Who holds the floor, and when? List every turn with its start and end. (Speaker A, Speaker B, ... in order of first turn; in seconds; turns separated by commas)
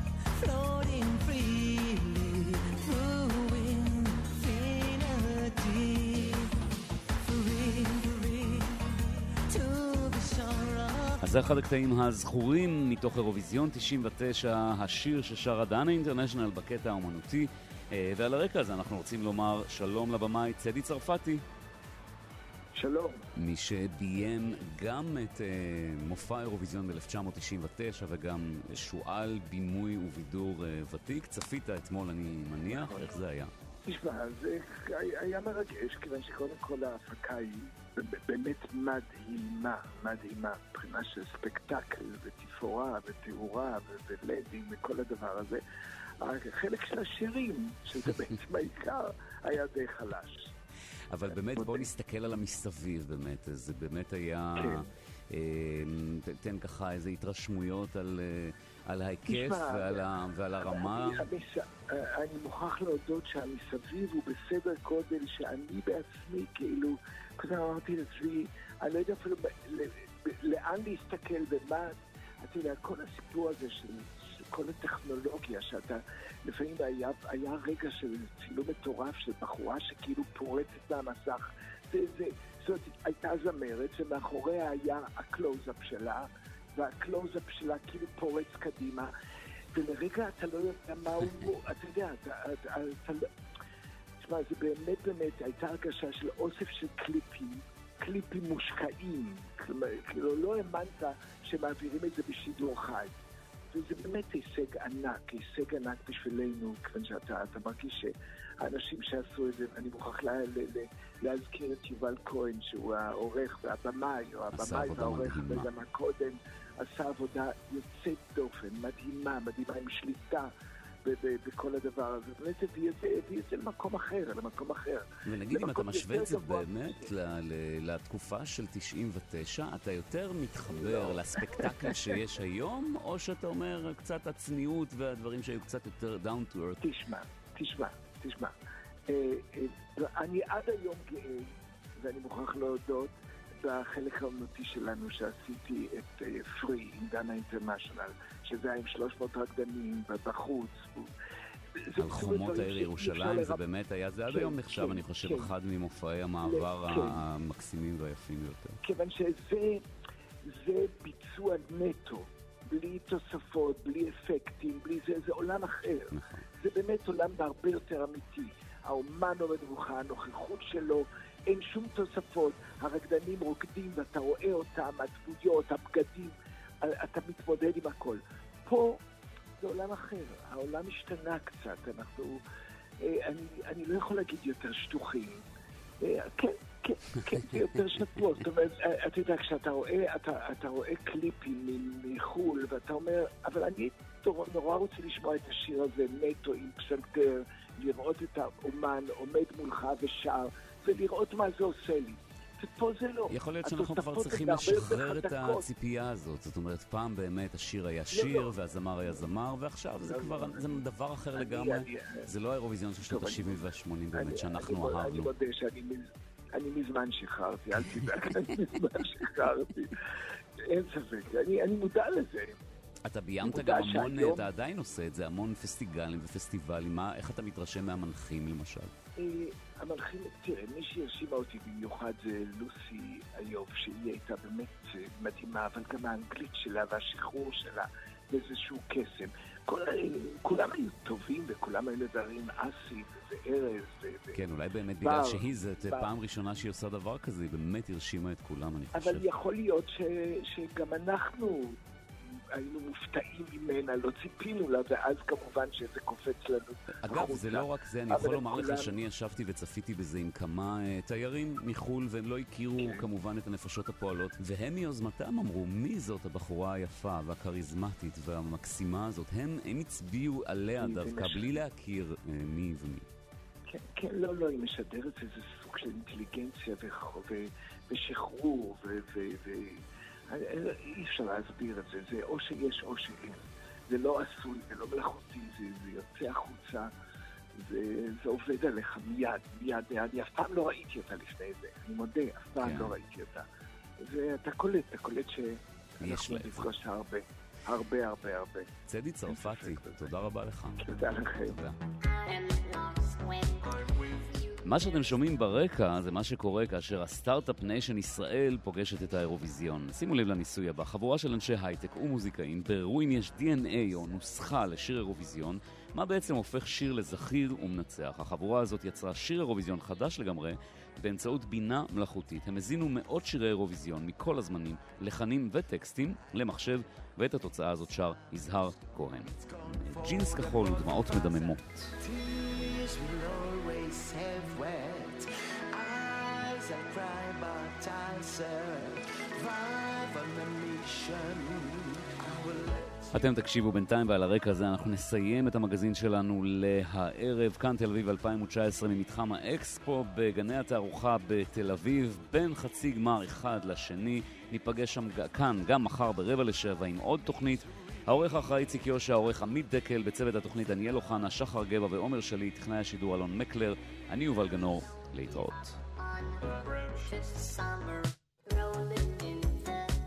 Speaker A: 0.4-6.6, Speaker A: 7.3-9.0, Speaker A: 9.5-11.2, Speaker B: 11.2-21.4, Speaker C: 22.7-23.2, Speaker B: 23.4-33.5, Speaker C: 32.7-33.2, Speaker C: 33.9-45.6, Speaker C: 46.2-50.5, Speaker B: 51.1-61.3, Speaker C: 51.5-51.9, Speaker C: 54.6-54.9, Speaker C: 59.3-60.1, Speaker C: 60.6-89.1, Speaker C: 89.7-93.2, Speaker C: 94.2-103.1, Speaker C: 103.7-120.5, Speaker B: 114.5-115.7, Speaker C: 121.0-127.1, Speaker B: 125.2-136.8, Speaker C: 130.7-131.9, Speaker C: 136.8-138.5, Speaker C: 139.1-151.1, Speaker C: 151.9-153.6, Speaker B: 152.0-158.8, Speaker C: 154.3-155.5, Speaker C: 156.4-157.2, Speaker C: 158.8-159.8, Speaker C: 160.5-179.0, Speaker B: 166.1-166.4, Speaker C: 179.6-182.4, Speaker C: 183.0-185.4, Speaker C: 186.0-205.7, Speaker B: 203.3-215.3, Speaker C: 208.1-209.3, Speaker C: 210.0-210.8, Speaker C: 211.4-212.3, Speaker C: 213.0-219.9, Speaker C: 220.7-222.6, Speaker B: 223.1-228.9, Speaker C: 223.4-224.5, Speaker C: 229.2-244.4, Speaker B: 244.3-249.3, Speaker C: 245.0-246.1, Speaker C: 248.9-251.8, Speaker C: 252.6-258.9, Speaker B: 257.0-273.1, Speaker C: 262.8-263.0, Speaker C: 270.8-271.6, Speaker C: 273.7-286.9, Speaker C: 287.6-293.5, Speaker B: 292.6-292.9, Speaker C: 294.0-298.7, Speaker B: 296.0-296.7, Speaker B: 298.9-301.8, Speaker C: 299.3-300.3, Speaker C: 300.8-301.6, Speaker B: 304.6-332.0, Speaker A: 328.8-343.2, Speaker B: 343.1-365.8, Speaker A: 366.9-367.8, Speaker A: 369.0-369.4